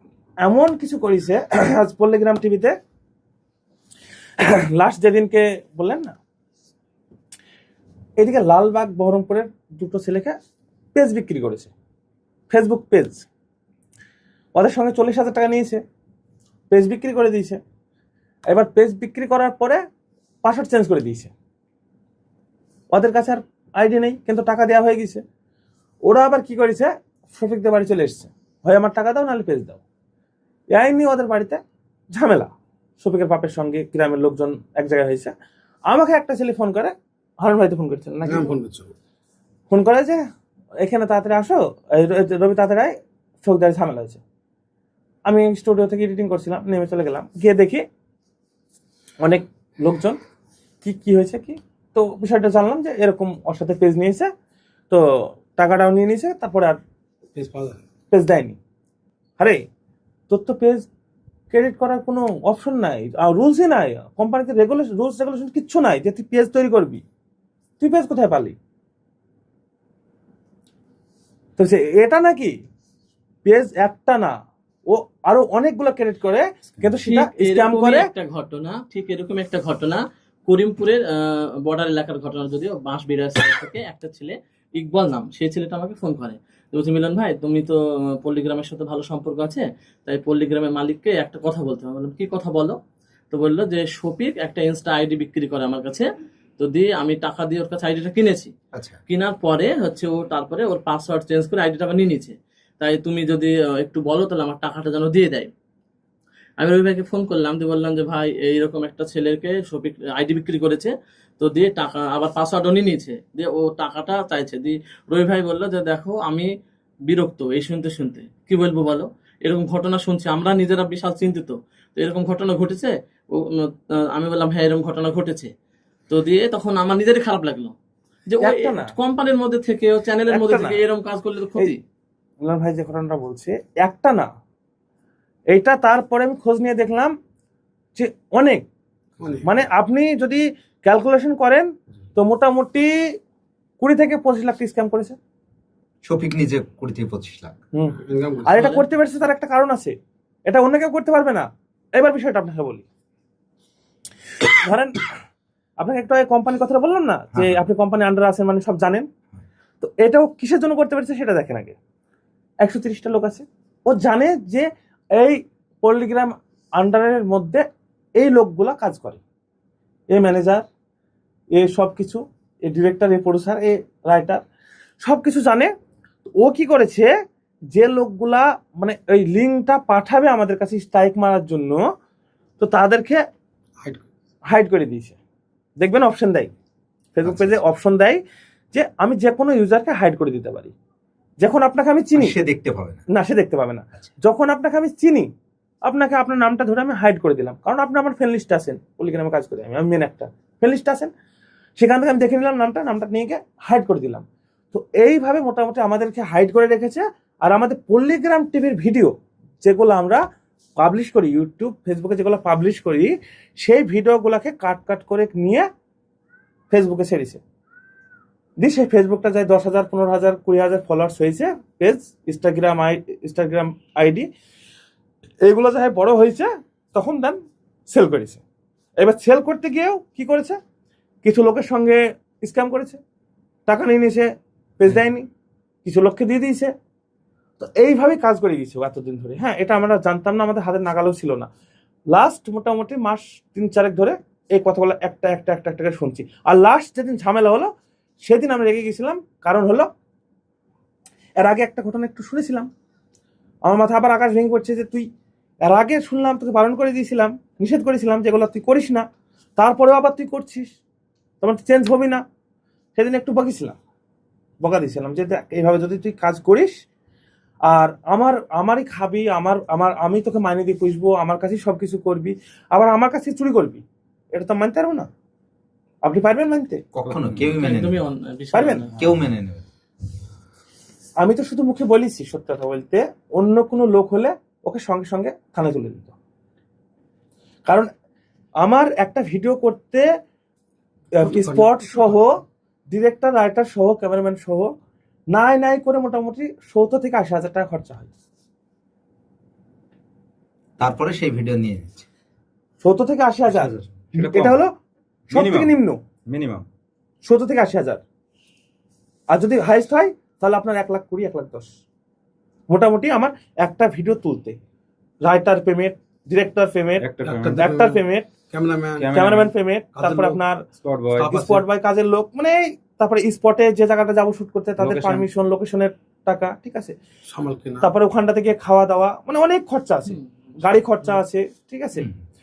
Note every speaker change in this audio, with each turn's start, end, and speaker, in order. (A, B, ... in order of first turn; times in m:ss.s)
0:00.4-0:02.8 A
0:04.4-0:06.2 A
0:08.2-0:10.4 A
0:10.9-0:11.7 A
0:12.5-0:13.2 A
0:14.5-0:15.8 A
0:16.7-0:17.6 A
0:18.5-0:19.8 A
0:20.4-0:21.3 A
0:22.9-0:25.2 A
0:26.0-0:29.8 A
0:30.7-0:35.3 A
0:35.9-0:38.5 A
0:38.2-0:38.9 B
0:39.7-0:40.2 A
0:40.8-0:44.2 A
0:45.2-0:47.8 A
0:49.2-0:50.2 A
0:50.8-0:54.3 A
0:54.9-0:56.8 A
0:57.3-0:57.8 B
0:58.1-0:58.6 A
0:59.4-0:59.6 A
1:00.3-1:00.9 A
1:01.5-1:07.0 A
1:07.8-1:08.6 A
1:11.6-1:12.6 A
1:13.4-1:14.4 A
1:14.9-1:18.0 A
1:17.0-1:32.8 C
1:33.3-1:36.0 C
1:36.6-1:38.5 C
1:39.1-1:45.5 C
1:46.6-1:56.5 C
1:57.1-2:05.5 C
2:06.1-2:07.7 C
2:08.3-2:11.8 C
2:08.4-2:08.9 A
2:10.3-2:10.8 A
2:12.4-2:14.3 A
2:15.5-2:17.1 A
2:18.0-2:18.6 A
2:19.2-2:19.5 B
2:19.4-2:23.2 A
2:23.8-2:25.2 A
2:26.0-2:27.6 D
2:27.7-2:29.9 A
2:28.0-2:28.8 B
2:30.5-2:32.8 A
2:34.4-2:35.1 A
2:35.8-2:39.1 A
2:37.3-2:37.6 D
2:39.8-2:41.8 A
2:42.6-2:47.6 A
2:48.2-2:49.2 A
2:50.1-2:50.6 A
2:51.5-2:54.4 A
2:55.0-2:55.7 A
2:56.2-2:57.1 A
2:57.7-3:01.8 A
3:02.6-3:03.2 A
3:03.8-3:04.1 B
3:04.5-3:05.2 A
3:05.8-3:06.5 A
3:07.1-3:08.2 A
3:07.2-3:07.6 D
3:08.7-3:10.7 A
3:11.4-3:12.3 A
3:12.1-3:13.0 D
3:13.1-3:15.3 A
3:15.8-3:21.1 A
3:21.8-3:30.2 A
3:30.8-3:35.7 A
3:36.7-3:37.4 A
3:38.6-3:44.3 A
3:45.4-3:47.4 A
3:47.9-3:48.4 A
3:49.0-3:50.6 A
3:51.2-3:53.0 A
3:53.7-3:55.3 A
3:55.8-3:56.7 A
3:57.6-4:01.5 A
4:02.1-4:07.7 A
4:08.2-4:09.9 A
4:11.4-4:12.7 A
4:13.7-4:15.1 A
4:15.6-4:19.0 A
4:19.6-4:20.7 A
4:21.4-4:22.2 A
4:22.9-4:23.8 A
4:24.6-4:26.7 A
4:27.6-4:35.1 A
4:36.0-4:36.8 A
4:36.9-4:38.0 D
4:37.1-4:37.5 E
4:37.5-4:39.0 C
4:38.5-4:38.9 A
4:38.9-4:39.6 D
4:41.2-4:46.1 A
4:48.6-4:50.0 A
4:51.2-4:52.4 A
4:51.2-4:52.2 B
4:52.9-4:54.7 A
4:55.3-4:58.1 A
5:00.8-5:02.1 D
5:02.8-5:04.7 A
5:03.5-5:04.6 E
5:05.3-5:05.7 E
5:05.3-5:06.0 A
5:06.3-5:06.6 E
5:07.2-5:08.0 A
5:09.3-5:11.7 A
5:12.7-5:14.6 A
5:15.2-5:18.3 A
5:17.0-5:17.6 E
5:17.2-5:18.0 B
5:18.5-5:19.2 B
5:19.0-5:19.5 E
5:19.1-5:20.6 A
5:20.0-5:20.4 B
5:20.8-5:21.4 E
5:21.2-5:21.6 B
5:21.3-5:26.9 A
5:24.8-5:25.2 E
5:27.3-5:27.9 B
5:27.8-5:32.0 A
5:30.1-5:30.6 C